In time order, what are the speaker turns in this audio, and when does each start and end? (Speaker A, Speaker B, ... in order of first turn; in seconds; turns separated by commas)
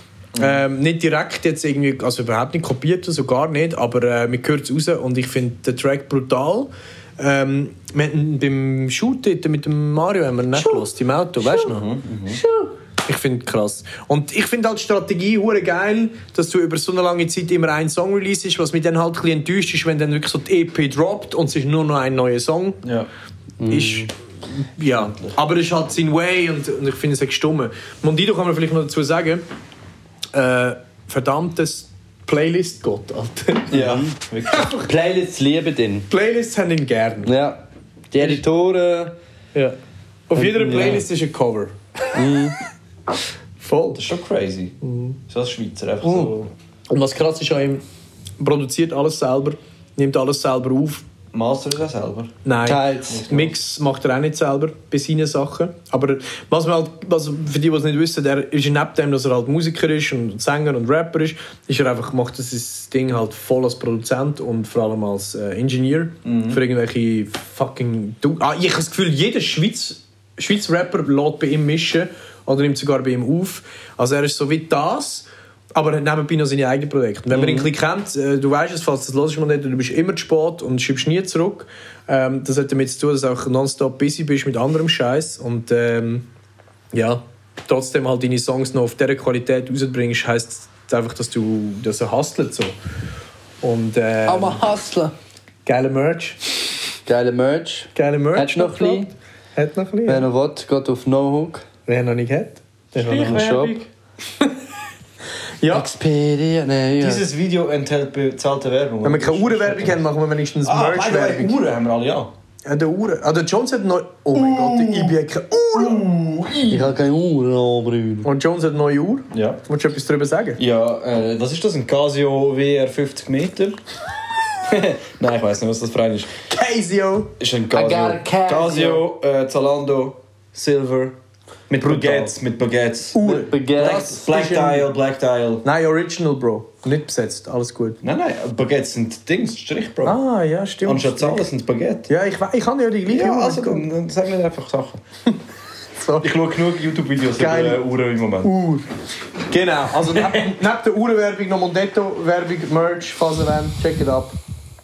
Speaker A: 0.3-0.6, Speaker B: 0.3-11.8, Speaker C: 10.5-10.8, Speaker C: 11.4-11.7, Speaker A: 11.7-12.4, Speaker C: 12.3-12.7, Speaker B: 13.0-22.8, Speaker A: 22.8-23.1, Speaker C: 23.6-24.1, Speaker B: 23.7-29.4, Speaker A: 24.9-25.4, Speaker B: 30.3-33.8, Speaker A: 33.7-34.7, Speaker C: 33.7-34.1, Speaker B: 34.5-34.9, Speaker C: 34.8-36.1, Speaker B: 36.1-37.3, Speaker C: 37.2-37.6, Speaker C: 38.1-39.1, Speaker B: 40.3-41.7, Speaker C: 40.3-41.0, Speaker C: 42.1-42.6, Speaker B: 43.6-44.1, Speaker A: 44.0-44.8, Speaker B: 44.8-45.2, Speaker A: 45.3-46.5, Speaker B: 46.9-47.8, Speaker B: 48.4-51.0, Speaker A: 51.3-52.3, Speaker B: 52.4-86.2, Speaker C: 52.6-53.2, Speaker A: 53.1-53.5, Speaker A: 66.2-66.6, Speaker A: 77.3-77.6, Speaker B: 86.9-92.7, Speaker B: 93.6-94.6, Speaker C: 94.2-95.1, Speaker B: 95.7-96.4, Speaker C: 97.0-99.1, Speaker B: 98.0-100.2, Speaker C: 100.0-101.7, Speaker B: 101.9-103.5, Speaker A: 102.9-103.9, Speaker C: 103.1-103.8, Speaker B: 105.6-105.9, Speaker C: 105.7-107.2, Speaker A: 107.0-110.0, Speaker B: 109.0-111.6, Speaker A: 110.6-112.3, Speaker B: 112.6-116.0, Speaker A: 114.3-115.2, Speaker A: 115.7-116.9, Speaker C: 116.7-118.3, Speaker B: 118.2-120.6, Speaker A: 119.3-119.6, Speaker A: 120.6-123.8, Speaker A: 124.6-126.3, Speaker B: 126.5-127.3, Speaker A: 127.4-131.2, Speaker C: 127.7-129.0, Speaker A: 131.7-133.2, Speaker B: 131.8-132.3, Speaker B: 133.1-134.9, Speaker C: 133.2-134.2, Speaker A: 133.8-135.6, Speaker B: 135.6-138.0, Speaker A: 138.0-140.2, Speaker B: 140.0-141.4, Speaker A: 140.8-142.1, Speaker B: 142.1-143.9, Speaker A: 143.1-145.0, Speaker B: 146.0-146.3, Speaker A: 146.2-148.5, Speaker B: 147.4-147.8, Speaker B: 148.4-148.9, Speaker B: 149.5-154.3, Speaker A: 150.1-150.4